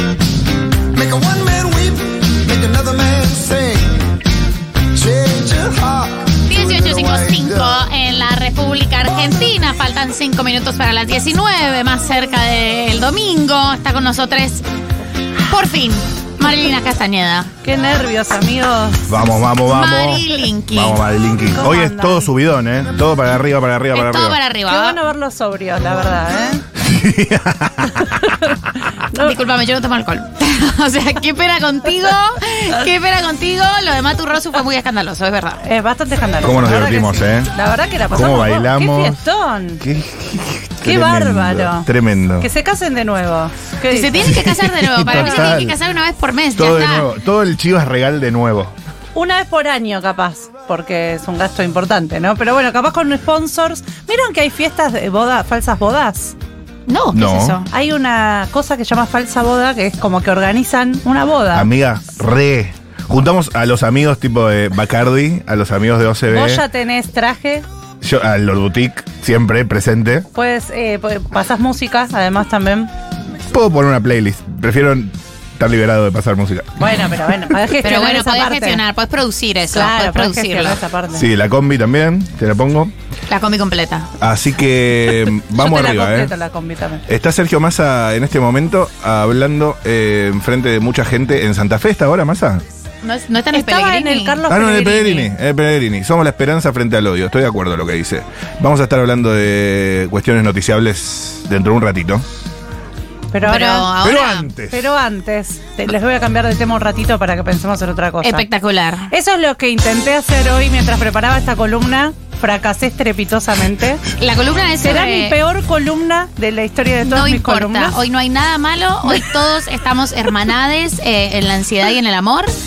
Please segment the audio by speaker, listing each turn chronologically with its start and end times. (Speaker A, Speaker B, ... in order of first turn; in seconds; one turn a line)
Speaker A: 0.9-4.0
Speaker A: 4.9-7.7
Speaker B: 6.5-14.6
Speaker B: 15.5-17.5
Speaker C: 17.6-19.0
Speaker D: 19.1-24.4
Speaker B: 19.7-21.0
Speaker C: 21.5-22.3
Speaker B: 23.9-25.0
Speaker C: 24.7-26.6
Speaker D: 26.8-28.5
Speaker C: 29.0-29.4
Speaker B: 29.1-35.6
Speaker C: 35.6-39.8
Speaker D: 36.4-37.5
Speaker D: 38.1-39.2
Speaker D: 39.8-42.5
Speaker C: 40.8-41.9
Speaker C: 42.4-44.4
Speaker B: 43.9-47.1
Speaker D: 44.2-45.8
Speaker C: 45.0-45.6
Speaker D: 46.5-48.7
Speaker C: 49.1-56.4
Speaker B: 56.9-57.7
Speaker D: 57.1-57.6
Speaker C: 57.7-61.7
Speaker D: 61.5-66.6
Speaker C: 66.3-67.6
Speaker D: 68.0-70.2
Speaker C: 70.3-72.9
Speaker D: 73.5-76.7
Speaker C: 76.8-78.8
Speaker B: 77.8-80.8
Speaker C: 79.7-81.2
Speaker D: 81.1-82.9
Speaker B: 83.3-84.1
Speaker D: 84.2-86.3
Speaker C: 85.5-87.0
Speaker D: 87.1-92.6
Speaker B: 93.0-94.4
Speaker C: 93.5-95.3
Speaker D: 94.5-102.2
Speaker C: 103.3-103.9
Speaker B: 103.4-104.5
Speaker D: 104.0-104.9
Speaker C: 104.7-108.4
Speaker B: 108.2-109.1
Speaker C: 109.1-114.0
Speaker B: 114.1-115.3
Speaker C: 114.8-118.0
Speaker B: 117.0-122.5